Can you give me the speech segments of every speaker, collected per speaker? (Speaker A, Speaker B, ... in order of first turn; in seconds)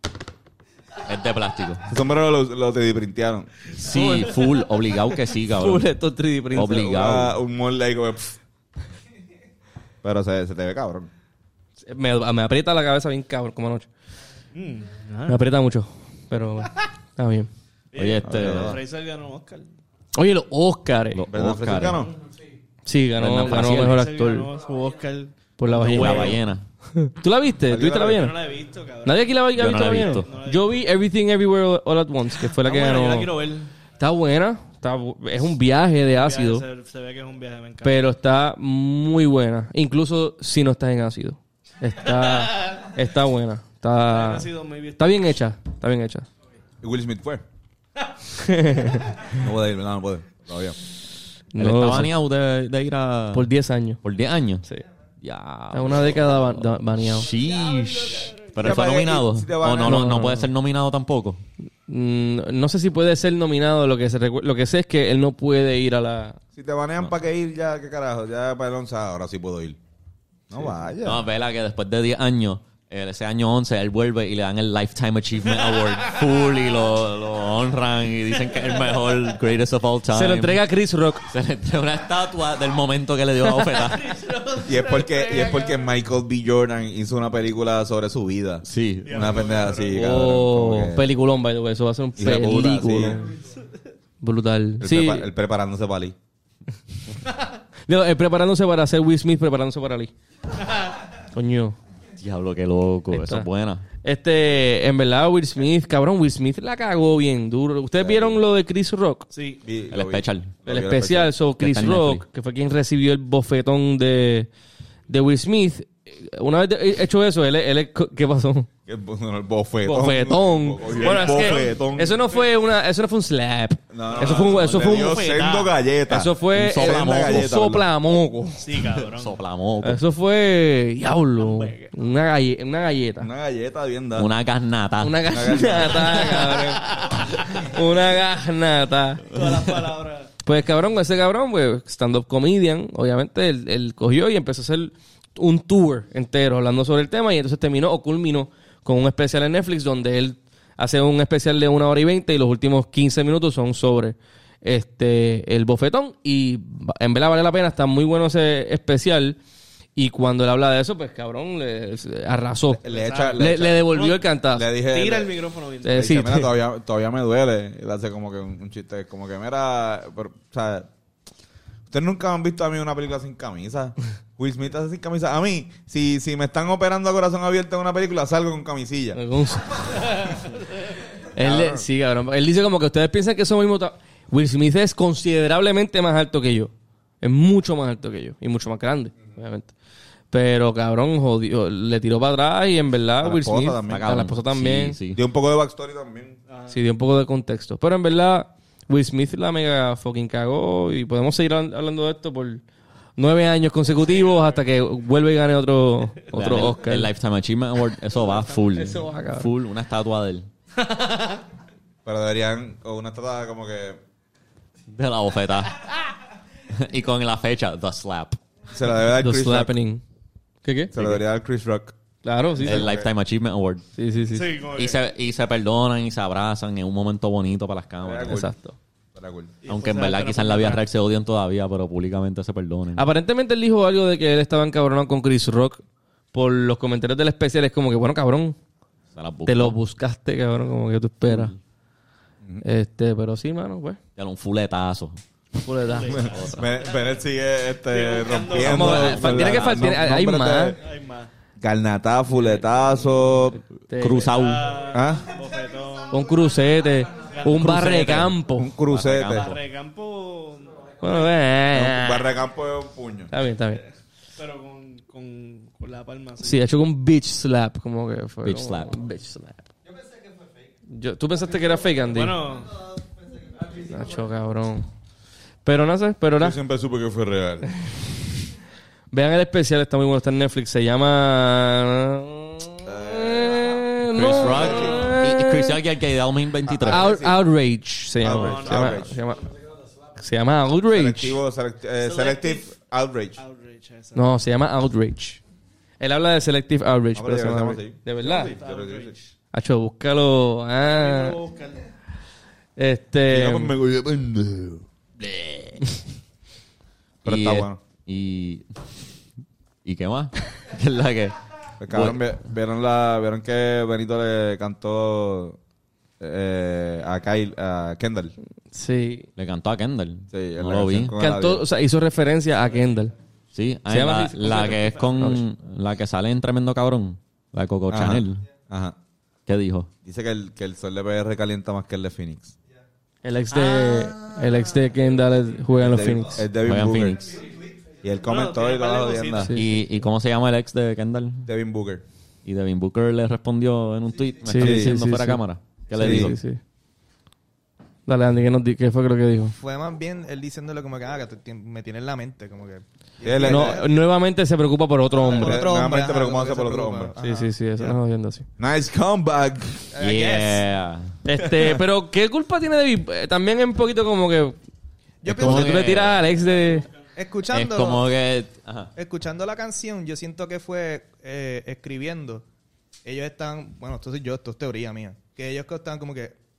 Speaker A: 1.0-1.9, 3.7-5.9, 6.5-7.4, 17.9-18.8, 21.1-22.1, 23.2-24.0, 25.8-26.6, 29.6-30.3, 51.6-53.5, 54.0-54.6, 55.2-61.4, 71.0-80.6, 81.2-84.2, 88.6-89.4, 102.2-103.8, 109.9-110.5, 111.6-112.2, 126.5-127.5, 129.1-130.0, 134.2-135.7, 193.9-195.2, 206.3-210.5, 214.9-215.9, 216.7-218.4, 222.6-223.8, 224.7-228.4, 229.7-233.0, 239.2-239.8, 241.3-241.6, 244.2-245.2, 246.2-246.6, 248.6-249.9, 253.9-254.7, 258.9-259.6, 268.4-269.0, 284.1-287.1, 305.2-305.8, 307.2-308.7, 309.9-312.2, 319.4-321.2, 323.5-328.4, 329.5-329.9, 336.6-337.4, 339.5-341.5, 342.4-346.4, 360.0-361.1, 365.3-366.2, 367.5-368.9
Speaker B: 1.9-3.5, 6.7-8.4, 10.0-11.1, 18.2-18.8, 21.3-22.1, 27.7-28.3, 46.8-47.4, 49.3-50.8, 58.6-60.2, 66.6-69.8, 70.5-71.2, 84.7-91.1, 92.2-93.2, 94.8-96.2, 108.0-108.4, 109.6-111.3, 118.9-122.2, 123.9-127.9, 133.2-134.3, 135.3-136.2, 162.8-164.0, 164.5-165.4, 165.9-170.9, 171.9-179.2, 181.4-181.9, 193.2-194.1, 195.1-196.4, 212.1-214.0, 218.7-219.7, 220.9-221.9, 222.6-223.1, 228.0-228.5, 229.2-229.5, 246.1-250.8, 251.6-253.6, 254.9-255.3, 257.7-259.5, 261.7-263.3, 276.4-277.7, 282.8-285.1, 286.6-287.5, 288.2-289.2, 290.9-293.4, 297.1-299.2, 303.3-304.9, 307.2-307.8, 311.8-315.6, 316.2-318.3, 320.3-321.6, 327.9-329.0, 330.0-332.5, 335.8-337.4, 338.0-339.5, 341.5-342.0, 344.6-345.0, 345.9-346.3, 353.2-353.8, 355.3-357.2, 358.6-359.9, 361.4-361.8
Speaker C: 3.9-4.3, 5.5-6.9, 11.8-13.9, 15.3-17.5, 20.1-21.2, 22.9-24.5, 25.6-26.4, 26.9-28.4, 29.1-33.4, 34.0-36.6, 37.8-46.3, 48.4-49.1, 51.5-52.1, 53.3-54.0, 55.7-57.3, 59.8-60.5, 61.9-66.4, 80.1-81.3, 89.9-93.3, 94.2-95.3, 97.9-100.1, 101.3-101.8, 103.1-103.5, 104.0-109.3, 110.7-114.5, 115.1-118.7, 119.9-125.2, 126.1-128.9, 129.8-133.3, 135.0-139.4, 140.4-159.4, 160.0-162.8, 163.4-164.7, 165.8-166.5, 179.2-180.5, 181.4-189.7, 190.3-195.0, 196.7-202.6, 203.2-207.1, 208.7-209.5, 219.2-220.0, 220.6-220.9, 222.2-222.9, 224.0-224.6, 228.3-228.8, 233.0-235.8, 236.3-238.6, 239.5-241.5, 242.6-244.0, 245.6-246.5, 248.7-250.8, 253.9-254.7, 256.1-258.7, 261.0-262.3, 263.3-263.8, 266.4-269.7, 270.9-272.4, 273.7-274.9, 275.6-276.6, 279.1-285.8, 286.9-289.4, 290.2-291.4, 294.1-295.4, 296.0-298.6, 299.5-301.4, 302.8-303.7, 318.7-319.3, 321.2-323.1, 323.9-325.4, 333.2-336.4, 339.4-339.9, 344.4-346.6, 348.1-349.5, 353.4-355.6, 357.2-358.5, 361.2-364.6, 365.3-366.9
Speaker D: 14.5-15.4, 17.9-19.7, 23.4-26.4, 28.1-30.8, 32.6-33.7, 36.1-38.1, 44.1-45.3, 57.6-58.4, 83.6-85.8, 89.0-90.0, 109.3-109.6, 120.9-122.5, 124.1-125.7, 128.6-129.4, 131.4-131.9, 139.3-140.3, 162.8-164.2, 164.8-166.1, 196.5-196.8, 210.8-211.4, 224.3-225.0, 229.6-230.8, 245.8-246.7, 247.9-249.2, 250.8-251.3, 254.3-256.2, 257.2-258.2, 259.2-261.3, 264.4-266.6, 272.1-272.8, 288.3-289.0, 292.0-292.7, 293.4-294.4, 298.2-299.2, 300.8-301.9, 333.5-334.1, 338.2-339.6, 366.1-366.9
Speaker E: 349.5-353.9, 355.2-357.5, 359.9-360.6, 365.2-366.1, 367.1-368.1, 368.9-372.4, 373.1-376.4